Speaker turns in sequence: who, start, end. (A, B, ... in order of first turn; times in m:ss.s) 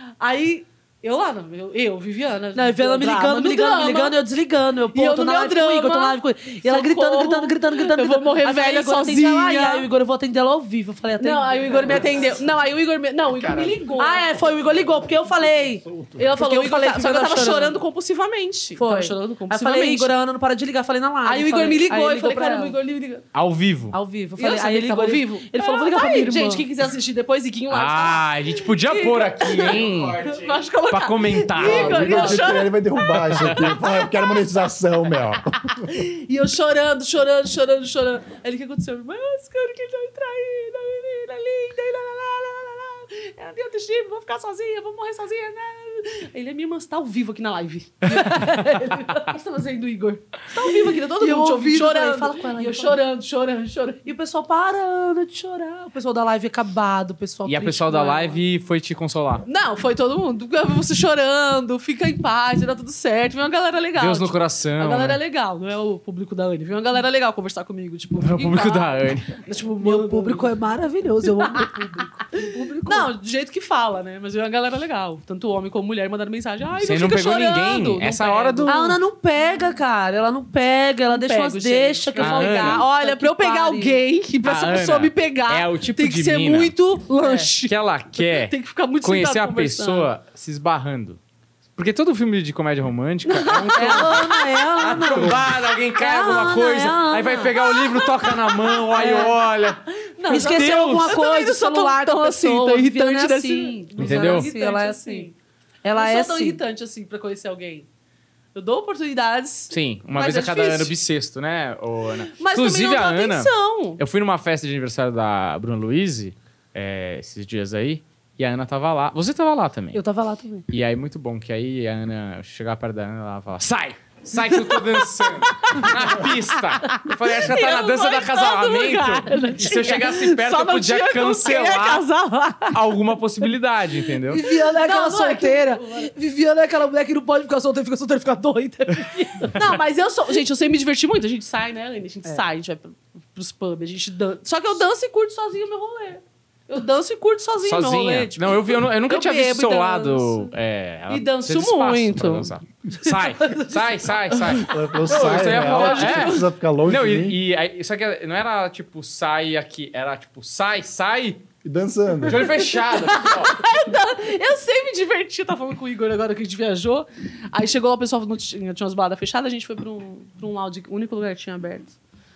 0:00.2-0:04.2 A
0:02.6-0:12.2 B
0:04.9-0:09.9 A
0:11.2-0:14.4 A
0:12.0-0:12.4 C
0:13.4-0:13.7 C
0:14.0-0:17.8 B
0:14.4-0:16.4 C
0:16.2-0:20.2 A
0:18.8-0:22.8 B
0:21.2-0:23.2 A
0:23.3-0:24.0 D
0:23.9-0:26.6 B
0:24.4-0:34.2 A
0:27.7-0:30.3 D
0:30.9-0:32.3 D
0:31.6-0:35.9 C
0:31.7-0:32.4 B
0:33.3-0:33.6 D
0:35.9-0:54.1 A
0:48.1-0:49.3 B
0:50.6-0:53.0 B
0:54.1-0:58.4 B
0:57.5-0:59.4 D
0:59.5-1:10.5 A
1:04.0-1:05.2 D
1:08.2-1:09.3 D
1:09.8-1:13.1 B
1:12.8-1:19.0 A
1:16.8-1:18.9 D
1:18.7-1:24.0 B
1:21.1-1:30.1 A
1:22.2-1:22.8 D
1:24.4-1:26.8 D
1:27.2-1:27.5 B
1:27.6-1:31.2 D
1:31.8-1:41.2 D
1:33.3-1:34.7 A
1:33.8-1:37.7 B
1:38.9-1:39.3 B
1:39.0-1:39.3 A
1:40.2-1:45.4 A
1:40.2-1:45.3 B
1:44.0-1:44.5 D
1:45.8-1:46.6 B
1:46.0-1:47.9 A
1:48.6-1:50.9 A
1:49.7-2:00.0 D
1:52.4-1:54.0 A
1:59.9-2:00.7 B
2:00.7-2:12.0 D
2:04.5-2:06.0 A
2:06.9-2:12.8 A
2:09.3-2:10.1 B
2:12.7-2:14.4 D
2:14.3-2:19.8 B
2:14.4-2:16.1 A
2:19.5-2:30.5 A
2:27.6-2:41.4 D
2:31.1-2:32.5 A
2:33.4-2:34.0 B
2:34.6-2:37.4 C
2:35.1-2:36.5 A
2:41.6-2:42.6 C
2:42.2-2:43.6 D
2:42.9-2:52.0 A